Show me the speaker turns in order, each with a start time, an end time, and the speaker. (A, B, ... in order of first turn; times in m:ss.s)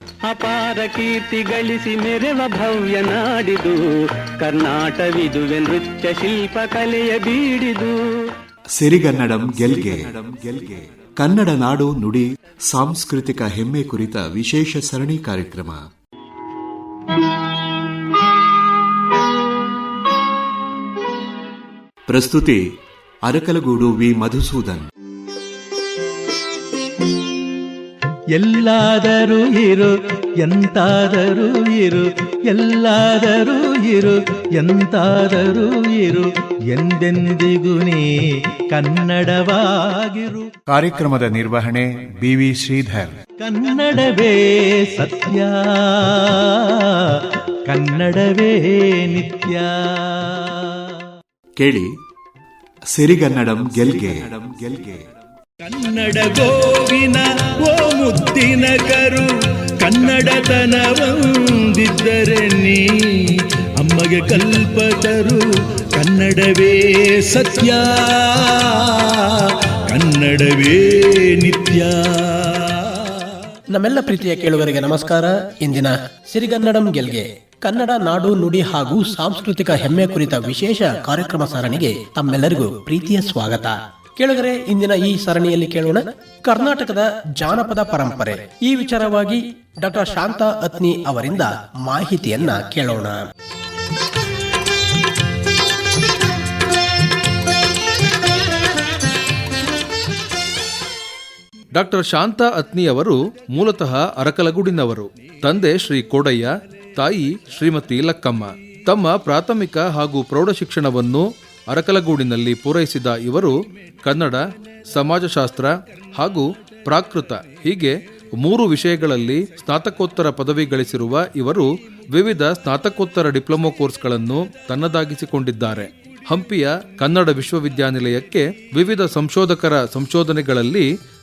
0:00.3-0:08.0 A
0:08.8-0:15.8 B
0:22.1-0:22.6 B
0:23.2-0:24.9 B
0:28.3-0:40.5 C
0:40.7-0:43.2 D
0:43.4-0:51.0 C
0:51.6-0:51.9 B
0:52.9-0:55.0 B
0:55.6-1:13.1 C
1:13.7-1:33.2 E
1:41.7-2:10.9 F